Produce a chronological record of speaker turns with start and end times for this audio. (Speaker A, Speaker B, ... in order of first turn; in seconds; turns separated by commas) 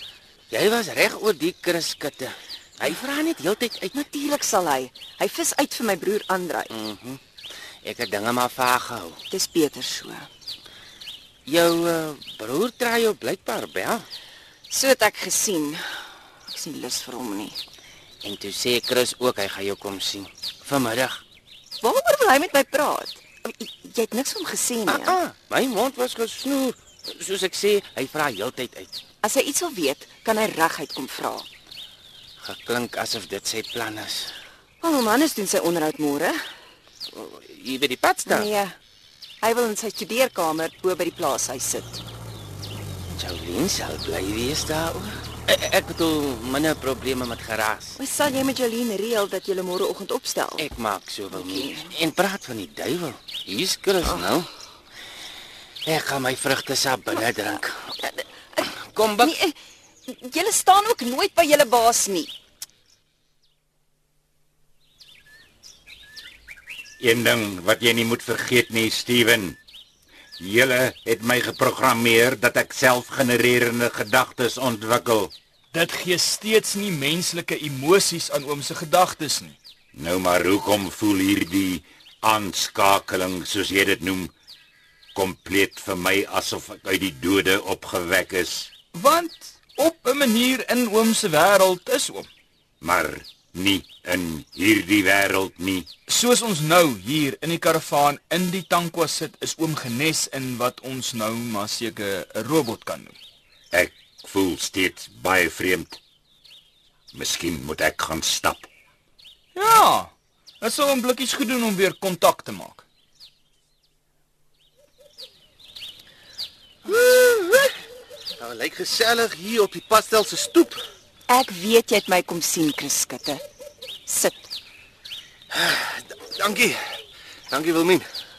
Speaker A: 0.5-3.9, Speaker B: 3.9-6.7, Speaker A: 6.7-7.2, Speaker A: 7.8-9.2, Speaker B: 9.3-10.3, Speaker A: 11.5-14.0, Speaker B: 14.7-15.8, Speaker B: 16.5-17.6, Speaker A: 18.2-21.2, Speaker B: 21.8-25.2, Speaker A: 24.9-29.0, Speaker B: 29.2-31.4, Speaker A: 32.4-34.3, Speaker B: 34.8-36.4, Speaker A: 37.1-38.5, Speaker B: 38.2-38.8, Speaker B: 39.4-42.0, Speaker A: 43.1-48.0, Speaker B: 48.0-50.6, Speaker A: 50.6-54.5, Speaker B: 51.3-51.9, Speaker A: 55.9-57.7, Speaker A: 58.9-59.3, Speaker B: 59.2-59.5, Speaker B: 60.1-62.3, Speaker C: 67.0-69.6, Speaker C: 70.4-75.3, Speaker D: 75.7-79.5, Speaker C: 79.9-84.3, Speaker C: 85.1-88.7, Speaker D: 88.9-92.3, Speaker C: 92.8-95.9, Speaker D: 96.1-103.2, Speaker C: 103.7-106.0, Speaker C: 107.1-108.7, Speaker D: 109.5-112.8, Speaker E: 116.8-117.7, Speaker E: 118.4-120.8, Speaker B: 121.3-123.4, Speaker B: 124.1-124.5, Speaker E: 125.5-126.8, Speaker E: 127.5-128.0